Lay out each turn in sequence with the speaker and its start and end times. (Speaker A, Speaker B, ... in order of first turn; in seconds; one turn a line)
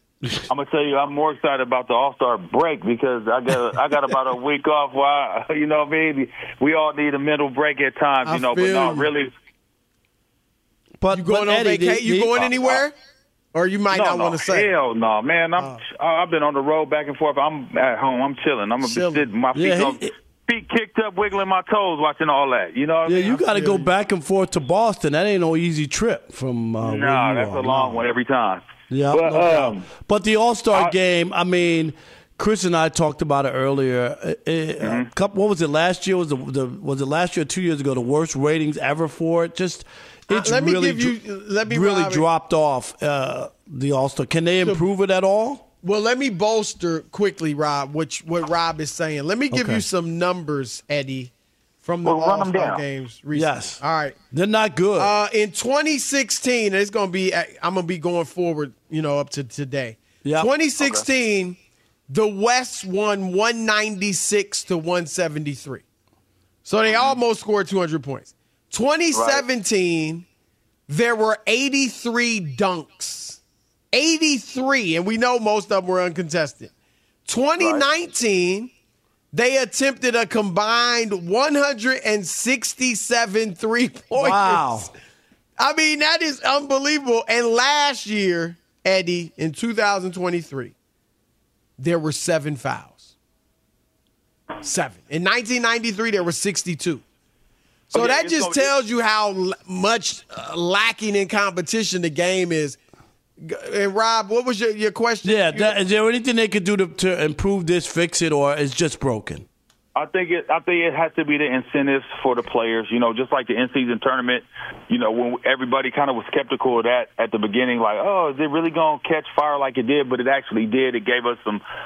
Speaker A: 0.5-9.3
Speaker B: 8.3-9.1
Speaker C: 11.0-12.7
Speaker B: 11.1-12.9
Speaker B: 13.5-14.7
Speaker A: 13.9-23.4
Speaker B: 15.6-15.8
Speaker B: 18.8-19.3
Speaker C: 19.5-20.1
Speaker C: 23.1-28.1
Speaker B: 23.4-23.9
Speaker A: 26.8-29.9
Speaker C: 28.9-41.2
Speaker A: 30.7-30.9
Speaker A: 34.8-35.1
Speaker B: 40.3-42.3
Speaker C: 41.7-45.6
Speaker B: 45.8-51.3
Speaker C: 49.5-49.8
Speaker B: 51.8-54.2
Speaker A: 52.0-52.8
Speaker C: 53.3-53.8
Speaker C: 54.3-55.1
Speaker B: 55.0-61.6
Speaker C: 60.2-60.5
Speaker A: 60.8-61.0
Speaker B: 62.1-65.8
Speaker B: 66.6-70.2
Speaker A: 66.9-67.2
Speaker A: 69.1-69.4
Speaker B: 70.9-73.4
Speaker B: 73.9-76.7
Speaker B: 77.3-78.7
Speaker A: 77.6-77.9
Speaker B: 79.3-84.9
Speaker C: 84.1-84.9
Speaker B: 85.6-90.7
Speaker B: 91.8-93.1
Speaker B: 94.6-97.0
Speaker A: 97.9-98.7
Speaker B: 97.9-102.8
Speaker B: 103.4-105.7
Speaker C: 105.2-109.5
Speaker A: 110.0-121.6